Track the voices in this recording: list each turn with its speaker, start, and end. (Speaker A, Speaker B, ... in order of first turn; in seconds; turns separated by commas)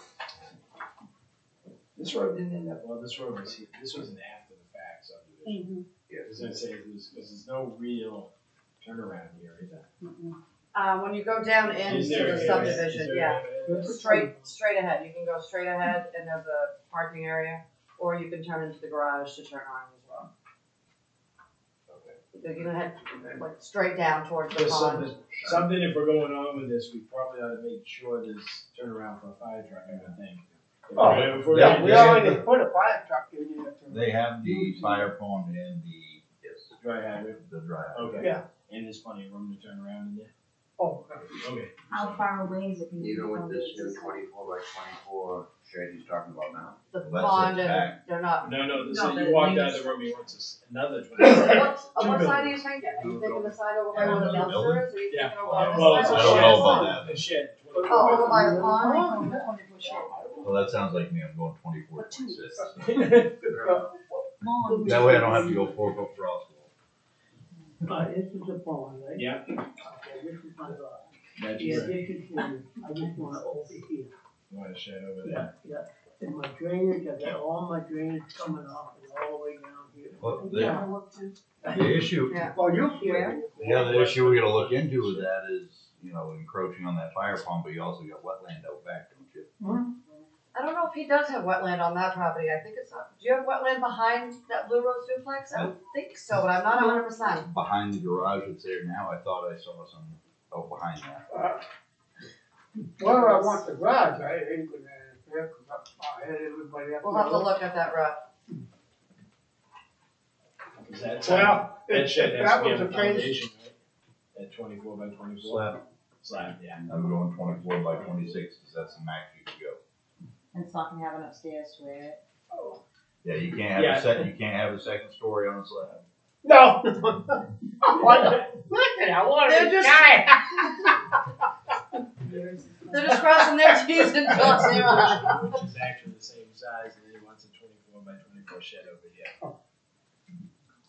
Speaker A: 1.9-5.7, Speaker B: 5.4-5.8, Speaker A: 6.2-9.9, Speaker B: 10.0-10.4, Speaker C: 10.7-20.3, Speaker A: 11.8-13.9, Speaker D: 12.0-12.8, Speaker D: 13.7-14.5, Speaker C: 22.3-25.1, Speaker A: 24.5-32.3, Speaker E: 25.3-25.7, Speaker D: 30.9-35.1, Speaker F: 31.1-32.4, Speaker F: 33.9-36.2, Speaker E: 36.4-36.7, Speaker A: 36.8-37.4, Speaker F: 37.4-38.3, Speaker A: 37.9-40.3, Speaker D: 40.8-41.3, Speaker A: 41.4-42.3, Speaker B: 41.9-44.2, Speaker E: 43.0-46.8, Speaker C: 46.9-48.8, Speaker F: 47.0-48.0, Speaker A: 48.4-52.5, Speaker B: 48.8-50.2, Speaker C: 51.2-57.0, Speaker F: 53.0-57.2, Speaker B: 54.0-54.3, Speaker A: 55.1-58.4, Speaker B: 55.8-56.8, Speaker D: 57.7-60.5, Speaker C: 57.9-59.2, Speaker B: 58.0-60.2, Speaker F: 60.4-63.2, Speaker B: 62.0-62.4, Speaker A: 62.8-63.5, Speaker E: 63.5-63.8, Speaker D: 63.6-65.7, Speaker B: 64.4-65.8, Speaker F: 64.8-66.7, Speaker D: 67.8-74.1, Speaker A: 69.1-69.5, Speaker A: 71.4-72.0, Speaker B: 71.7-72.0, Speaker B: 72.8-73.8, Speaker A: 74.5-75.5, Speaker D: 75.2-80.9, Speaker F: 80.2-80.8, Speaker B: 80.4-81.3, Speaker D: 81.6-84.3, Speaker F: 81.7-82.9, Speaker C: 82.3-82.5, Speaker B: 83.0-83.4, Speaker F: 83.5-89.5, Speaker A: 83.8-84.9, Speaker D: 89.6-89.9, Speaker C: 90.5-97.5, Speaker F: 97.5-101.2, Speaker D: 101.3-101.6, Speaker D: 103.0-107.5, Speaker C: 107.0-108.2, Speaker A: 110.8-113.7, Speaker D: 111.2-113.4, Speaker A: 114.3-115.7, Speaker F: 115.4-115.8, Speaker A: 116.2-116.9, Speaker F: 116.8-119.8, Speaker B: 120.5-122.2, Speaker D: 122.5-122.8, Speaker F: 123.2-126.0, Speaker A: 123.7-124.3, Speaker D: 126.4-130.9, Speaker C: 129.4-130.2, Speaker B: 132.2-133.2, Speaker C: 132.9-135.4, Speaker D: 133.4-134.6, Speaker A: 134.5-139.3